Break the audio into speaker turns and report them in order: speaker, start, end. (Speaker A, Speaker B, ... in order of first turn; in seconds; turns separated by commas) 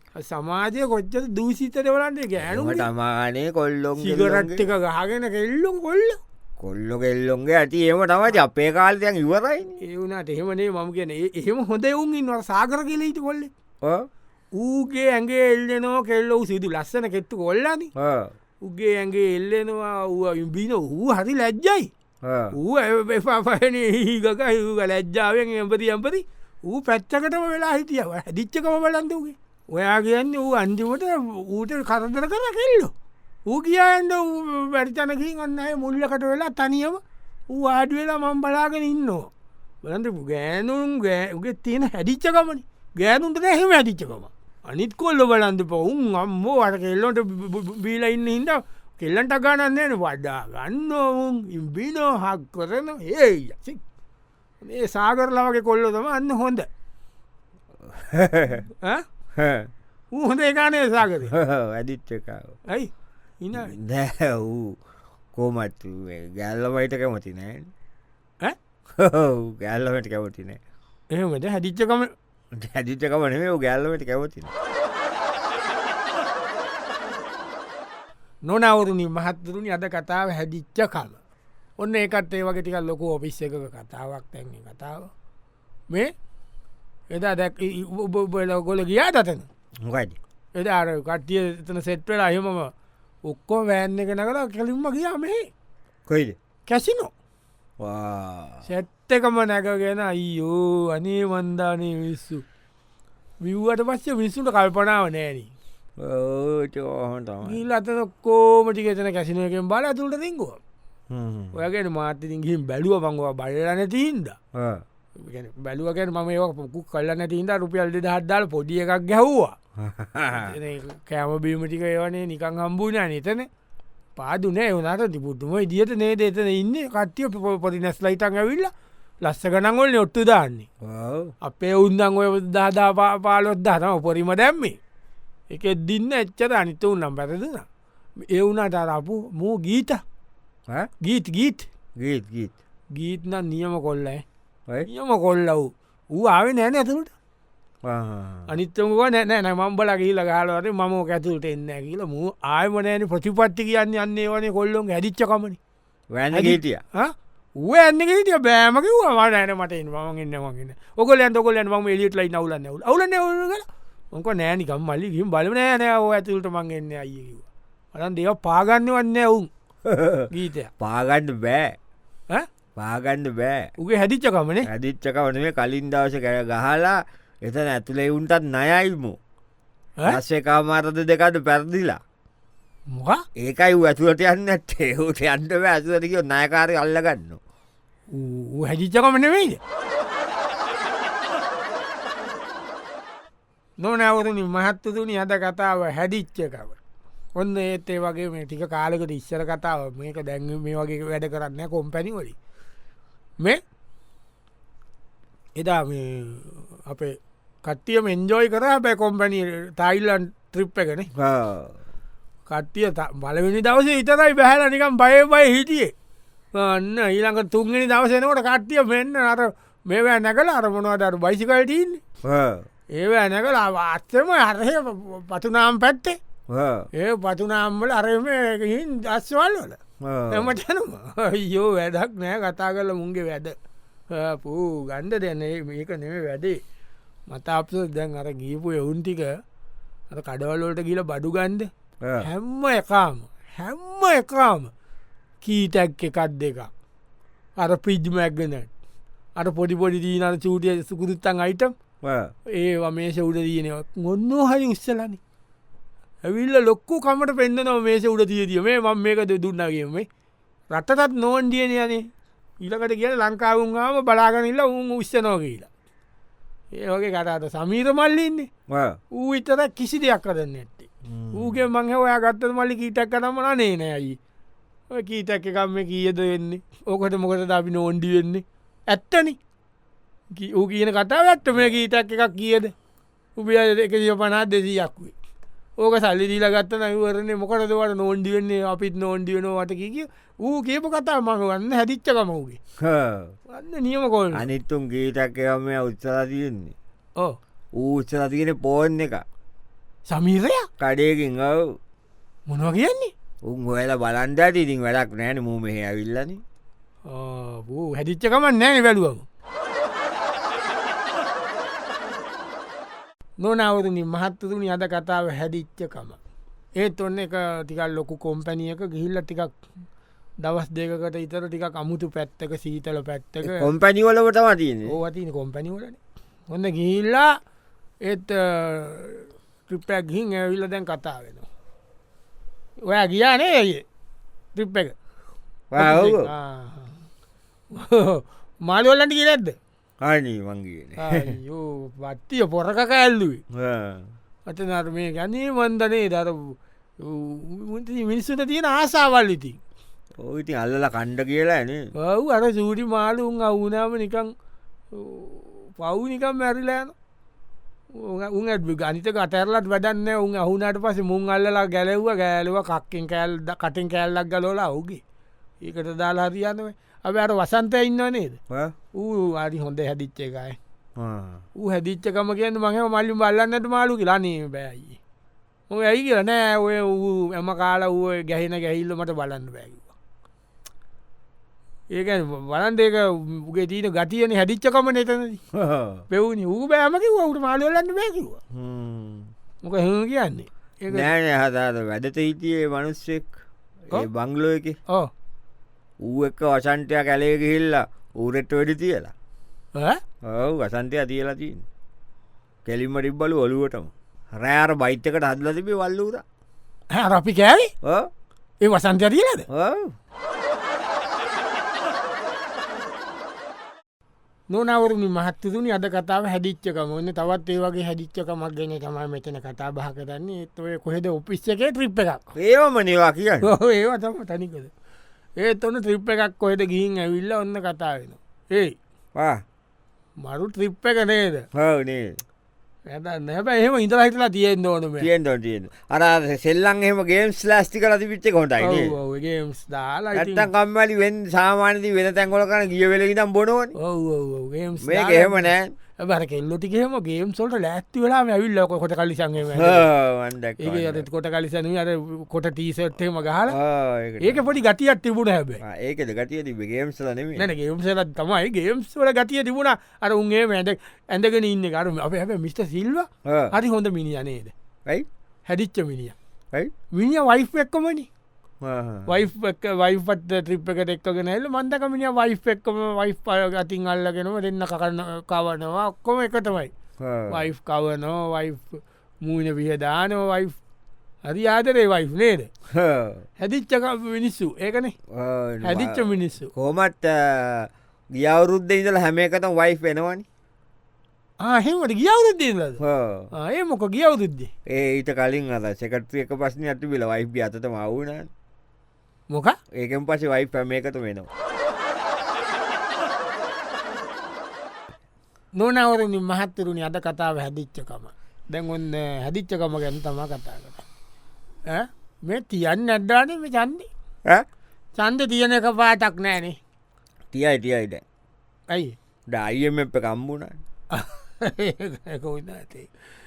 Speaker A: 0.1-2.9, Speaker B: 2.4-4.7, Speaker A: 4.0-6.2, Speaker B: 6.6-9.8, Speaker A: 9.8-13.5, Speaker B: 13.8-14.1, Speaker A: 14.6-17.9, Speaker B: 18.0-18.3, Speaker A: 18.6-21.9, Speaker B: 22.2-22.6, Speaker A: 22.5-32.9, Speaker A: 33.5-39.3, Speaker A: 39.8-53.8, Speaker A: 54.6-56.7, Speaker B: 57.8-58.7, Speaker B: 59.4-59.7, Speaker A: 60.1-61.3, Speaker B: 61.3-62.6, Speaker A: 62.7-63.8, Speaker B: 63.5-64.8, Speaker B: 65.3-67.7, Speaker B: 69.0-70.6, Speaker A: 71.1-72.1, Speaker B: 72.5-74.5, Speaker A: 78.5-81.2, Speaker A: 81.8-85.1, Speaker A: 87.1-89.5, Speaker B: 89.8-90.2, Speaker A: 90.5-92.7, Speaker A: 93.3-95.5, Speaker B: 96.1-96.4, Speaker A: 96.7-97.1, Speaker B: 97.8-98.7, Speaker A: 98.7-102.5, Speaker A: 103.4-105.5, Speaker B: 106.0-107.6, Speaker A: 107.4-110.6, Speaker B: 111.1-111.6, Speaker A: 111.5-114.4, Speaker B: 114.5-114.8, Speaker A: 115.2-119.6, Speaker B: 119.8-120.6, Speaker A: 120.3-123.5, Speaker A: 124.2-128.7, Speaker A: 129.2-130.7, Speaker B: 130.8-131.3, Speaker A: 131.4-134.8, Speaker A: 135.5-137.7, Speaker A: 138.3-140.0, Speaker A: 141.0-141.7, Speaker B: 142.0-142.5, Speaker A: 142.9-144.2, Speaker A: 144.9-147.1, Speaker B: 147.8-148.5, Speaker A: 148.5-155.6, Speaker B: 156.1-156.8, Speaker A: 156.3-169.5, Speaker B: 169.8-171.8, Speaker A: 170.3-170.7, Speaker B: 172.8-173.7, Speaker A: 173.8-174.7, Speaker B: 174.6-179.2, Speaker B: 180.1-182.0, Speaker A: 182.9-183.2, Speaker B: 183.4-187.4, Speaker A: 188.1-189.6, Speaker A: 193.8-196.8, Speaker A: 197.4-202.4, Speaker A: 205.6-211.1, Speaker B: 211.2-211.8, Speaker A: 212.5-215.9, Speaker A: 216.6-222.0, Speaker B: 222.2-222.7, Speaker A: 222.9-226.2, Speaker B: 226.5-226.9, Speaker A: 226.9-229.8, Speaker B: 230.0-230.6, Speaker A: 230.3-233.6, Speaker A: 234.1-236.6, Speaker A: 237.3-239.4, Speaker A: 240.1-241.7, Speaker B: 242.0-242.3, Speaker A: 242.2-244.7, Speaker A: 245.4-246.7, Speaker A: 247.6-248.7, Speaker A: 249.4-251.7, Speaker B: 252.0-252.3, Speaker A: 252.5-255.2, Speaker A: 256.2-260.1, Speaker A: 260.7-262.1, Speaker A: 262.6-265.7, Speaker A: 266.7-268.5, Speaker B: 268.7-269.0, Speaker A: 269.1-274.2, Speaker B: 271.1-271.6, Speaker A: 274.9-279.4, Speaker A: 280.3-282.7, Speaker A: 283.4-285.1, Speaker A: 285.8-292.6, Speaker B: 292.8-293.4, Speaker A: 293.5-294.5, Speaker B: 294.3-296.8, Speaker B: 297.8-299.2, Speaker A: 300.1-300.7, Speaker B: 300.8-301.8, Speaker A: 302.5-303.1, Speaker B: 303.4-306.4, Speaker A: 307.1-309.3, Speaker A: 313.4-316.2, Speaker A: 316.8-319.6, Speaker A: 320.4-323.7, Speaker B: 323.4-325.0, Speaker A: 324.9-327.4, Speaker A: 328.0-331.5, Speaker A: 332.9-333.8, Speaker A: 334.6-334.9, Speaker B: 335.7-336.3, Speaker A: 335.8-337.1, Speaker A: 337.7-339.6, Speaker B: 340.0-341.4, Speaker A: 341.0-343.4, Speaker B: 343.5-344.1, Speaker A: 344.5-349.6, Speaker B: 350.2-351.9, Speaker A: 352.0-354.3, Speaker A: 354.9-356.9, Speaker A: 357.9-365.0, Speaker A: 365.6-368.4, Speaker A: 368.9-370.6, Speaker B: 371.0-371.4, Speaker A: 371.6-375.0, Speaker A: 375.7-379.9, Speaker A: 381.9-385.4, Speaker B: 385.5-386.1, Speaker A: 386.1-388.4, Speaker B: 388.5-389.3, Speaker A: 389.6-391.1, Speaker B: 390.9-393.4, Speaker B: 393.9-394.8, Speaker B: 396.0-399.1, Speaker A: 399.8-400.0, Speaker B: 400.2-401.6, Speaker B: 402.6-406.2, Speaker A: 406.9-407.7, Speaker B: 407.8-408.1, Speaker A: 408.6-409.5, Speaker B: 409.5-409.9, Speaker A: 414.5-422.3, Speaker B: 422.4-423.5, Speaker A: 423.4-424.7, Speaker A: 425.4-428.8, Speaker B: 429.1-429.4, Speaker A: 430.2-431.5, Speaker B: 431.5-432.2, Speaker A: 432.9-435.1, Speaker B: 435.0-439.0, Speaker A: 438.6-440.5, Speaker B: 440.1-443.8, Speaker A: 443.8-449.9, Speaker B: 444.8-445.7, Speaker B: 449.5-451.1, Speaker A: 450.6-453.6, Speaker B: 453.5-454.4, Speaker A: 454.2-455.6, Speaker B: 455.6-457.5, Speaker A: 457.4-464.5, Speaker B: 463.3-463.6, Speaker A: 465.5-466.1, Speaker A: 466.9-468.1, Speaker B: 468.6-469.1, Speaker A: 469.1-476.7, Speaker B: 477.0-477.5, Speaker A: 477.3-480.6, Speaker A: 481.3-482.5, Speaker B: 482.7-483.2, Speaker A: 483.4-484.9, Speaker B: 485.1-490.2, Speaker A: 485.6-486.5, Speaker A: 491.4-492.8, Speaker B: 492.8-493.3, Speaker A: 493.3-494.5, Speaker B: 494.7-498.3, Speaker A: 499.3-499.6, Speaker B: 499.7-501.3, Speaker A: 505.6-510.9, Speaker A: 511.7-513.9, Speaker A: 515.0-516.6, Speaker B: 517.3-518.0, Speaker A: 518.7-519.0, Speaker B: 519.3-520.6, Speaker A: 520.9-522.9